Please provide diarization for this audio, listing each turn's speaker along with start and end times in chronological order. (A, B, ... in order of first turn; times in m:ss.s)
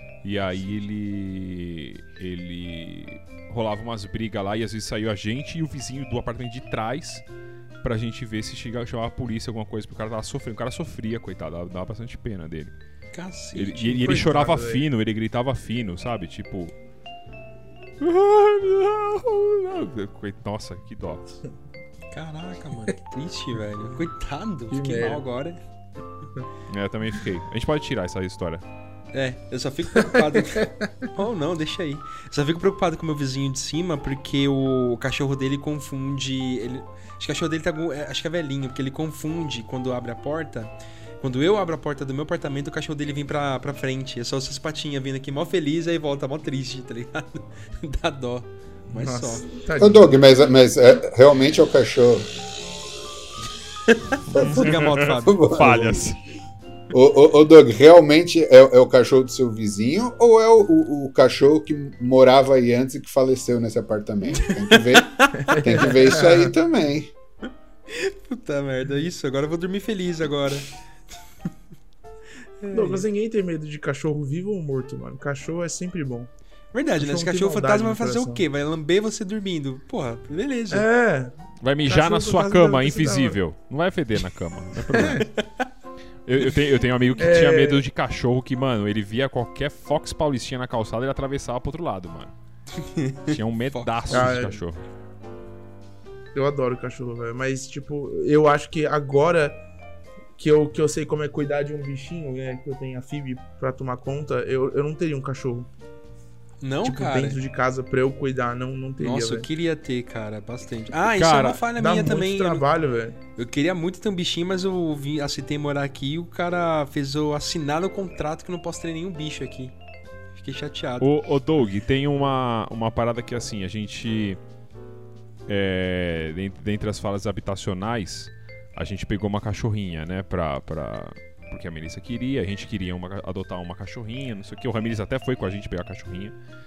0:00.2-0:07.2 A
0:07.8-0:12.7 A
0:13.1-0:14.3 B
0:13.6-0:16.7 A
0:14.0-0:14.8 C
0:18.0-0:21.4 A
0:22.1-0:25.6 B
0:24.7-0:25.2 C
0:26.7-0:28.6 A
0:29.1-0:49.5 B
0:30.1-0:30.9 C
0:48.9-0:50.1 C
0:49.8-0:52.3 D
0:53.9-0:55.6 B
0:54.3-0:56.1 D
0:54.3-0:56.2 A
0:56.9-1:07.1 D
1:04.4-1:06.0 B
1:05.4-1:06.5 C
1:07.9-1:10.7 B
1:12.6-1:13.0 B
1:12.7-1:16.3 C
1:16.7-1:20.9 B
1:17.0-1:18.4 C
1:20.7-1:23.4 C
1:21.6-1:25.3 A
1:25.0-1:25.2 C
1:26.3-1:32.3 A
1:27.2-1:27.8 C
1:32.8-1:34.6 B
1:33.3-1:34.8 A
1:34.1-1:34.6 C
1:36.4-1:39.6 C
1:40.4-1:45.7 C
1:46.6-1:47.4 B
1:46.8-1:49.4 C
1:49.0-1:52.6 B
1:51.2-1:51.6 A
1:51.8-1:53.2 C
1:53.4-1:59.8 B
2:00.4-2:01.1 B
2:01.0-2:04.4 A
2:05.5-2:16.4 A